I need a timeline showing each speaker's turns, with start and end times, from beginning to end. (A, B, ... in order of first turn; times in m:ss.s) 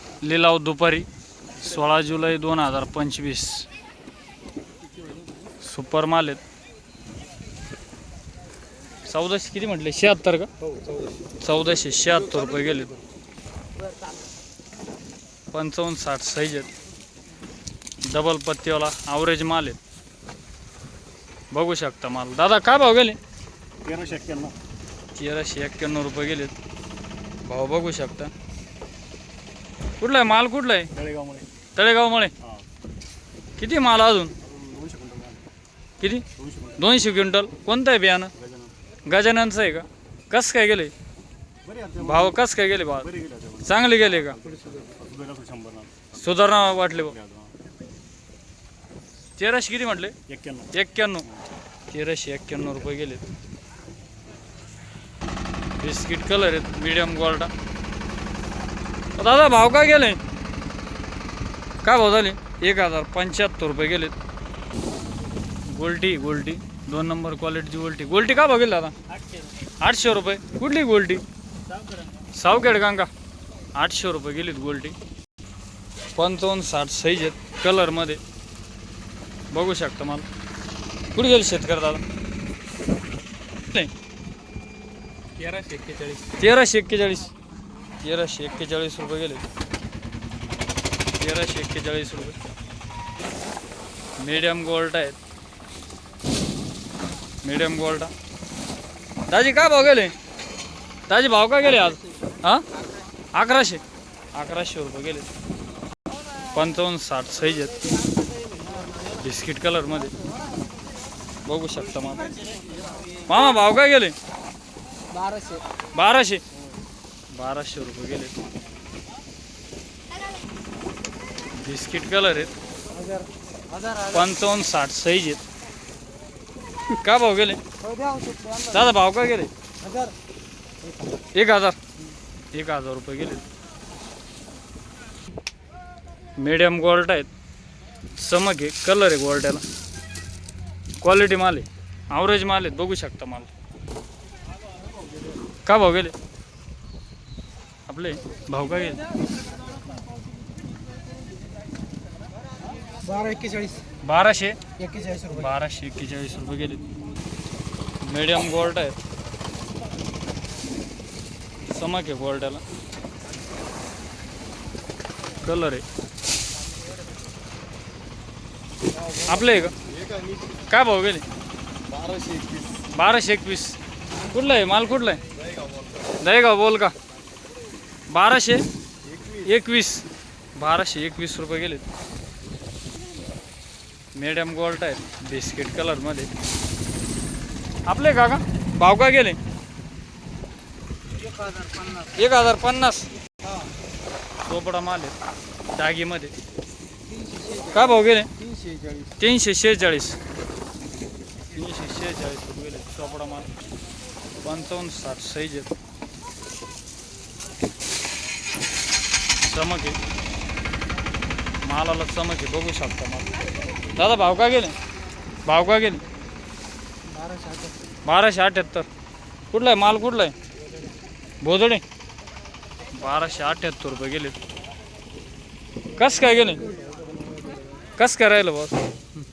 0:00.2-0:01.1 A
0:01.6-0:03.7 A
0:05.6-0:06.4 A
0:09.1-0:10.5 A
0:10.6-0:11.1 B
0:11.4-0:12.9 A
0:12.4-0:12.8 B
0:15.5-0:16.7 A
0:18.1-0:19.8 A
0:21.5-0:23.2 A
0:23.8-0:24.6 B
0:25.2-0:26.5 A
0:27.5-0:28.3 A
0:30.0-0:30.9 A
0:31.0-0:31.5 B
0:31.8-0:32.3 A
0:33.6-0:34.3 A
0:34.4-0:35.4 B
0:36.0-0:36.2 A
0:36.4-0:36.8 B
0:36.8-0:38.3 A
0:38.4-0:38.7 B
0:39.1-0:40.9 A
0:41.6-0:42.4 B
0:42.0-0:43.1 A
0:43.0-0:46.2 B
0:43.6-0:44.4 A
0:46.2-0:47.2 A
0:47.0-0:47.5 B
0:49.4-0:50.2 A
0:50.3-0:50.7 B
0:50.7-0:51.3 A
0:51.9-0:53.2 A
0:55.8-0:57.5 A
0:59.2-1:00.2 A
1:01.8-1:04.1 A
1:05.7-1:09.0 A
1:09.8-1:11.2 A
1:12.3-1:13.1 A
1:13.8-1:15.0 A
1:16.2-1:18.2 A
1:19.5-1:20.3 A
1:21.2-1:22.0 A
1:25.5-1:26.1 C
1:26.3-1:27.3 A
1:28.0-1:29.4 A
1:31.2-1:32.4 A
1:34.2-1:35.2 A
1:37.4-1:38.1 A
1:39.3-1:40.1 A
1:41.1-1:42.6 A
1:43.3-1:43.8 A
1:44.4-1:45.3 A
1:46.5-1:47.8 A
1:49.2-1:50.2 A
1:51.5-1:52.3 A
1:53.3-1:54.2 A
1:55.1-1:55.6 C
1:56.0-1:56.4 A
1:57.3-1:58.3 A
2:01.6-2:02.5 A
2:02.9-2:04.2 C
2:04.1-2:05.4 A
2:06.9-2:07.6 A
2:07.9-2:08.7 C
2:08.7-2:09.5 A
2:09.8-2:10.1 C
2:11.3-2:11.8 A
2:12.5-2:13.4 A
2:16.4-2:17.3 A
2:18.2-2:19.6 A
2:21.0-2:23.5 A
2:25.7-2:26.1 A
2:27.9-2:29.0 A
2:33.0-2:33.8 C
2:34.0-2:34.6 A
2:34.8-2:35.4 C
2:35.2-2:36.9 A
2:38.0-2:39.0 A
2:41.6-2:42.6 A
2:45.4-2:45.8 A
2:49.2-2:49.8 A
2:49.9-2:50.4 B
2:50.7-2:51.2 A
2:51.9-2:52.9 B
2:52.9-2:53.8 A
2:54.3-2:55.2 A
2:55.6-2:55.9 B
2:56.2-2:56.9 A
2:58.1-2:58.6 A
2:59.1-2:59.5 B
2:59.4-3:01.8 A
3:04.2-3:06.3 A
3:07.9-3:09.4 A
3:11.4-3:12.1 C
3:12.0-3:13.1 A
3:14.4-3:15.1 A
3:15.8-3:16.3 A
3:17.1-3:17.7 C
3:17.7-3:18.3 A
3:18.4-3:19.1 C
3:19.2-3:20.2 A
3:21.5-3:23.5 A
3:24.4-3:25.7 A
3:29.4-3:30.0 A
3:31.6-3:33.4 A
3:34.0-3:34.8 A
3:35.5-3:36.0 A
3:37.1-3:37.8 C
3:38.0-3:38.9 A
3:39.5-3:40.3 A
3:41.4-3:41.8 A
3:42.9-3:44.4 A
3:46.0-3:46.7 A
3:48.0-3:48.8 A